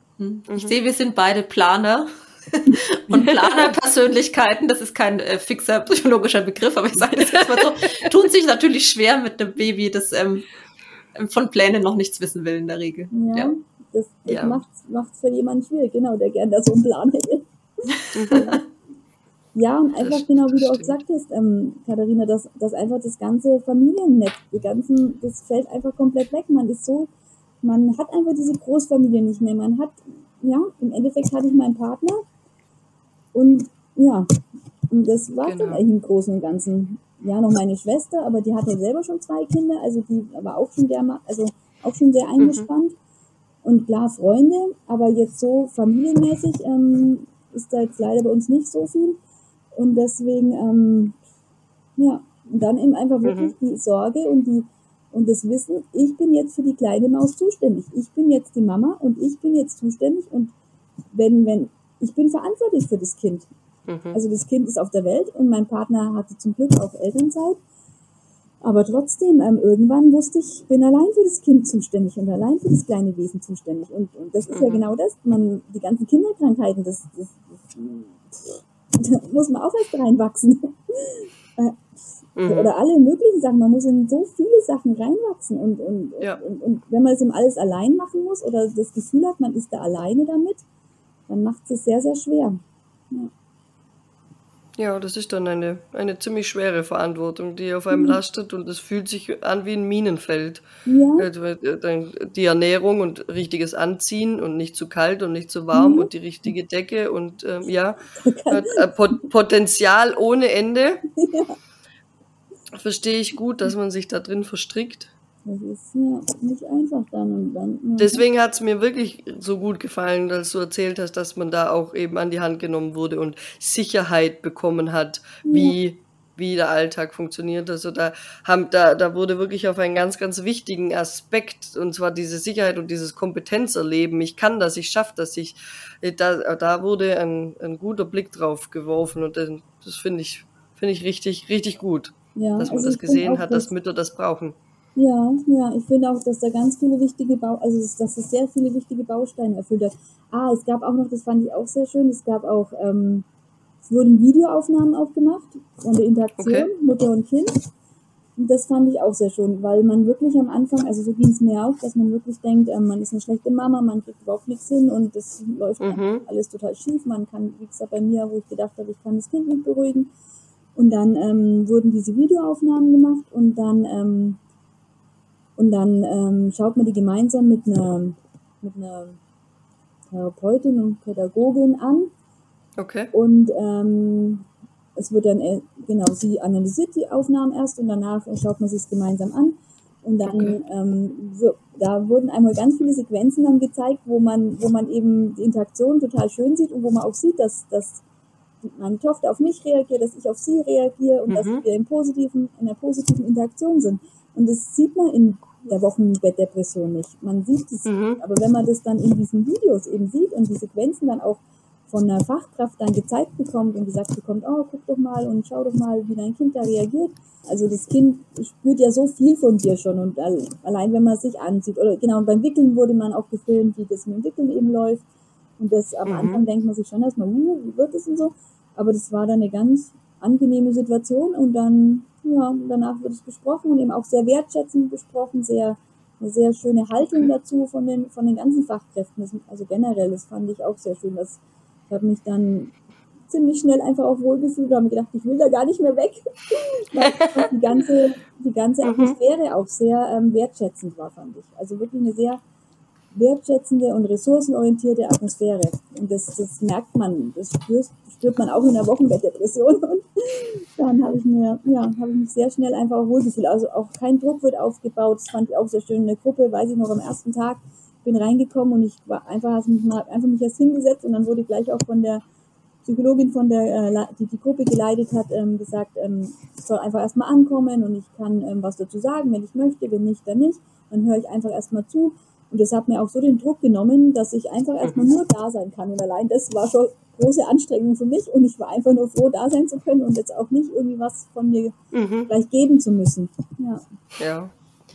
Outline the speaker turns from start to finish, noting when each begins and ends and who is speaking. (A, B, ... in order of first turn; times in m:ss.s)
0:00.2-0:10.5 A
0:00.5-0:00.7 B
0:02.7-0:03.3 C
0:07.1-0:08.1 B
0:11.2-0:13.5 A
0:13.1-0:18.6 C
0:14.3-0:14.6 B
0:18.2-0:18.6 B
0:19.5-0:27.1 C
0:20.0-0:21.0 B
0:27.6-0:32.2 C
0:33.3-0:43.0 C
0:35.4-0:35.8 B
0:42.4-0:42.7 B
0:43.6-0:49.2 C
0:49.7-0:51.2 C
0:52.0-1:00.5 C
0:53.2-0:53.5 B
1:01.1-1:03.5 C
1:03.9-1:04.2 B
1:04.1-1:07.6 C
1:08.6-1:21.8 C
1:14.5-1:14.9 B
1:22.4-1:22.7 B
1:22.4-1:30.6 C
1:31.3-1:32.6 C
1:34.8-1:40.6 B
1:37.9-1:38.2 C
1:40.9-1:41.3 C
1:41.2-1:51.0 B
1:45.7-1:46.1 C
1:48.2-1:49.0 C
1:51.2-1:51.6 C
1:52.7-1:55.1 B
1:55.5-1:58.2 C
1:58.0-2:24.6 B
2:05.5-2:05.8 C
2:22.4-2:23.7 C
2:25.0-2:33.3 C
2:33.8-2:37.6 C
2:36.4-2:36.7 B
2:38.4-2:50.1 C
2:45.8-2:46.2 B
2:50.8-2:54.4 C
2:55.6-2:59.2 C
3:00.1-3:02.1 C
3:02.8-3:03.1 B
3:03.1-3:18.0 C
3:18.6-3:45.0 C
3:21.3-3:21.6 B
3:27.9-3:28.2 B
3:45.6-4:12.4 C
3:46.0-3:46.4 B
4:07.0-4:07.5 B
4:08.8-4:09.2 B
4:13.1-4:32.2 C
4:32.8-4:51.8 C
4:51.9-4:52.3 B
4:52.3-4:53.8 C
4:54.2-4:54.5 B